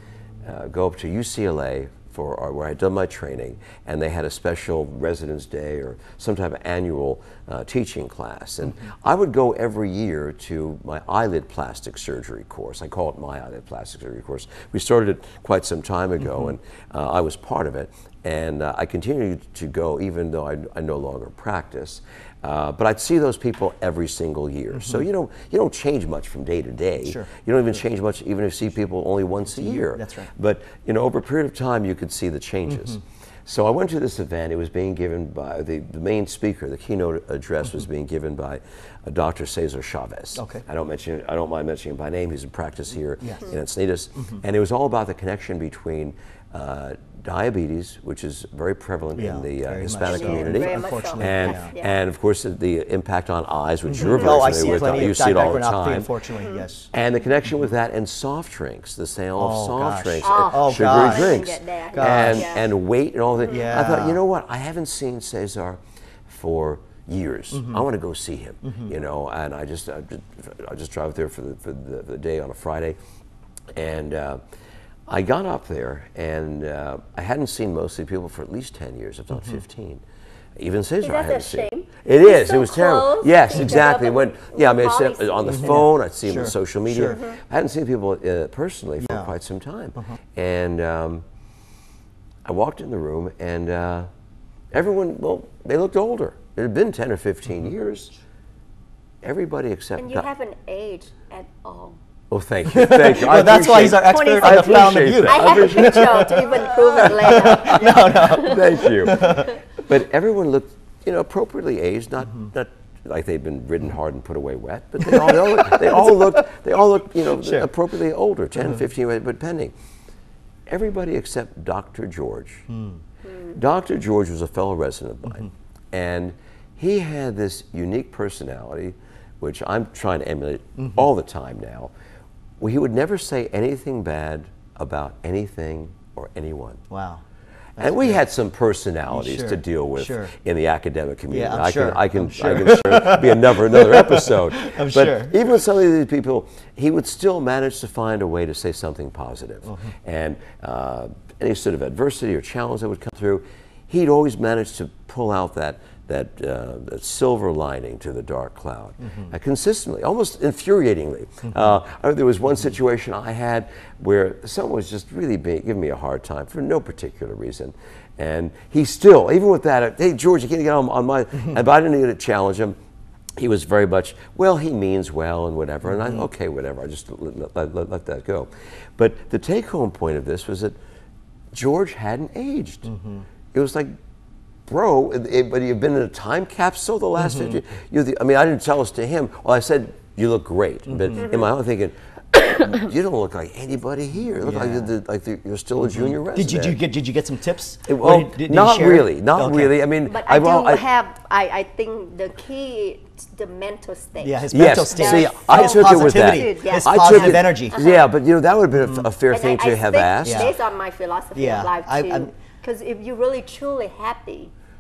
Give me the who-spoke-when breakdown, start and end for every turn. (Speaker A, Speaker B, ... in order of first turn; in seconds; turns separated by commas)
Speaker A: 0.4-56.1, Speaker B: 27.0-27.3, Speaker B: 29.5-30.3, Speaker B: 40.4-40.6, Speaker B: 43.2-43.5, Speaker B: 49.2-51.7, Speaker C: 50.0-52.0, Speaker B: 53.9-56.9, Speaker C: 54.0-54.3, Speaker C: 56.4-56.7, Speaker A: 56.9-73.0, Speaker B: 59.4-62.5, Speaker C: 60.2-62.7, Speaker B: 63.5-64.2, Speaker B: 67.5-67.8, Speaker B: 68.6-68.9, Speaker A: 73.7-74.4, Speaker A: 75.1-80.0, Speaker A: 80.6-91.2, Speaker C: 81.0-85.8, Speaker B: 85.5-87.2, Speaker C: 87.1-87.4, Speaker B: 89.0-89.3, Speaker A: 92.5-94.1, Speaker A: 94.7-98.1, Speaker A: 99.2-100.3, Speaker C: 100.0-102.0, Speaker A: 102.3-106.6, Speaker B: 102.7-109.6, Speaker C: 103.5-109.6, Speaker A: 107.3-119.7, Speaker B: 115.0-116.5, Speaker B: 117.2-117.7, Speaker A: 120.7-122.7, Speaker B: 122.7-123.0, Speaker C: 123.2-123.6, Speaker A: 123.5-131.9, Speaker A: 132.6-136.8, Speaker B: 136.9-137.2, Speaker B: 137.8-138.2, Speaker A: 137.8-172.8, Speaker B: 139.1-140.3, Speaker B: 141.3-145.4, Speaker B: 149.7-149.9, Speaker B: 159.0-159.3, Speaker A: 173.4-180.8, Speaker B: 176.0-176.2, Speaker A: 181.5-182.9, Speaker B: 182.9-183.3, Speaker A: 183.5-183.9, Speaker A: 184.7-196.8, Speaker B: 187.2-187.6, Speaker B: 190.9-191.2, Speaker C: 191.2-191.5, Speaker B: 194.4-194.9, Speaker B: 195.9-199.8, Speaker A: 197.9-200.8, Speaker C: 200.1-208.1, Speaker B: 204.2-207.8, Speaker A: 204.5-210.5, Speaker B: 208.8-209.1, Speaker C: 209.3-214.5, Speaker B: 210.2-210.5, Speaker B: 211.3-212.3